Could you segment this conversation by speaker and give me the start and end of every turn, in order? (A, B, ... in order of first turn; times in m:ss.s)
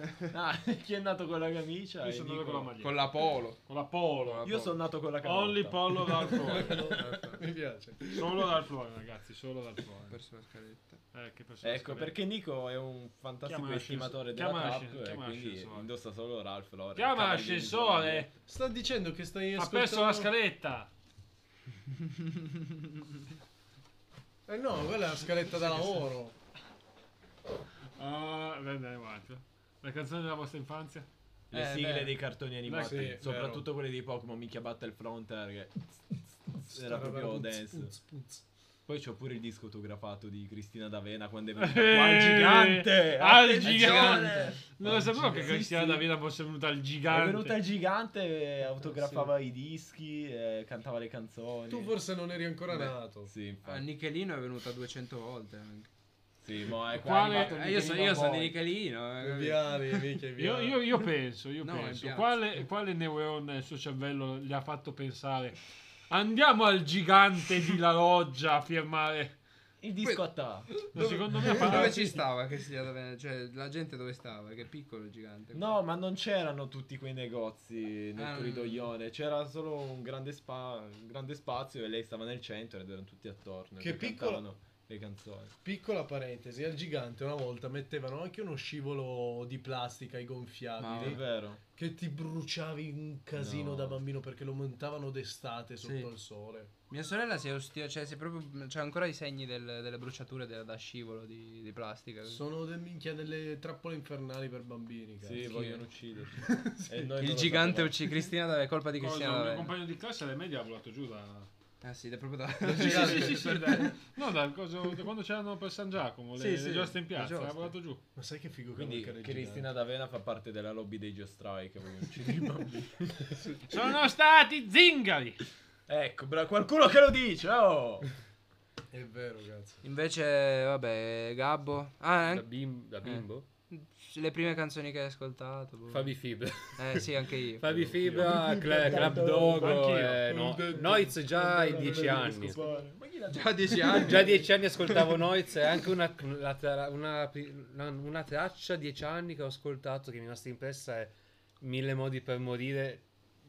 0:00.3-0:02.7 A
0:02.0-0:04.4 B
0:02.8-0:03.6 C
0:04.2-0:04.8 C
0:04.4-0:06.4 A
0:05.2-0:06.9 B
0:06.3-0:08.4 D
0:06.5-0:07.4 C
0:08.1-0:10.2 B
0:10.1-0:11.0 C
0:11.1-0:12.2 B
0:11.6-0:18.4 A
0:13.4-0:15.9 B
0:17.0-0:18.3 B
0:18.5-0:20.3 D
0:19.6-0:20.9 B
0:24.5-0:26.3 D
0:28.0-0:31.1 B
0:31.5-0:37.9 A
0:31.5-0:32.2 C
0:32.6-0:33.2 B
0:32.8-0:33.6 D
0:36.7-0:38.4 D
0:38.9-0:46.0 A
0:41.6-0:47.6 B
0:43.6-0:44.6 C
0:44.9-0:45.6 D
0:47.1-0:51.9 A
0:51.7-0:53.3 D
0:53.3-0:53.8 A
0:53.6-0:55.9 C
0:56.4-0:58.5 A
0:56.9-0:57.8 B
0:57.2-1:00.0 C
0:59.2-1:00.8 D
1:00.4-1:09.4 B
1:01.6-1:02.6 C
1:09.8-1:12.0 A
1:10.0-1:15.8 C
1:10.9-1:12.2 B
1:15.5-1:25.5 A
1:18.2-1:18.9 C
1:23.8-1:24.4 D
1:25.6-1:36.7 D
1:30.8-1:31.2 C
1:30.9-1:31.6 A
1:33.3-1:34.0 A
1:35.8-1:36.1 C
1:36.9-1:42.4 C
1:42.3-1:45.5 D
1:45.2-1:48.0 A
1:45.4-1:45.8 C
1:46.3-1:47.2 D
1:47.2-1:49.7 C
1:49.0-1:51.5 B
1:51.8-1:53.9 C
1:52.7-1:53.9 D
1:52.7-1:58.0 B
1:56.4-1:57.7 C
1:58.2-1:59.7 D
1:58.7-2:03.4 A
2:03.7-2:05.5 B
2:05.9-2:08.1 A
2:08.9-2:09.8 D
2:09.8-2:12.5 C
2:12.3-2:13.4 E
2:13.0-2:17.7 C
2:15.9-2:17.1 E
2:17.6-2:22.6 E
2:17.7-2:19.9 A
2:18.0-2:18.4 B
2:18.8-2:19.5 D
2:19.3-2:20.3 B
2:20.2-2:22.8 D
2:21.4-2:24.4 A
2:23.3-2:24.6 C
2:24.0-2:33.0 E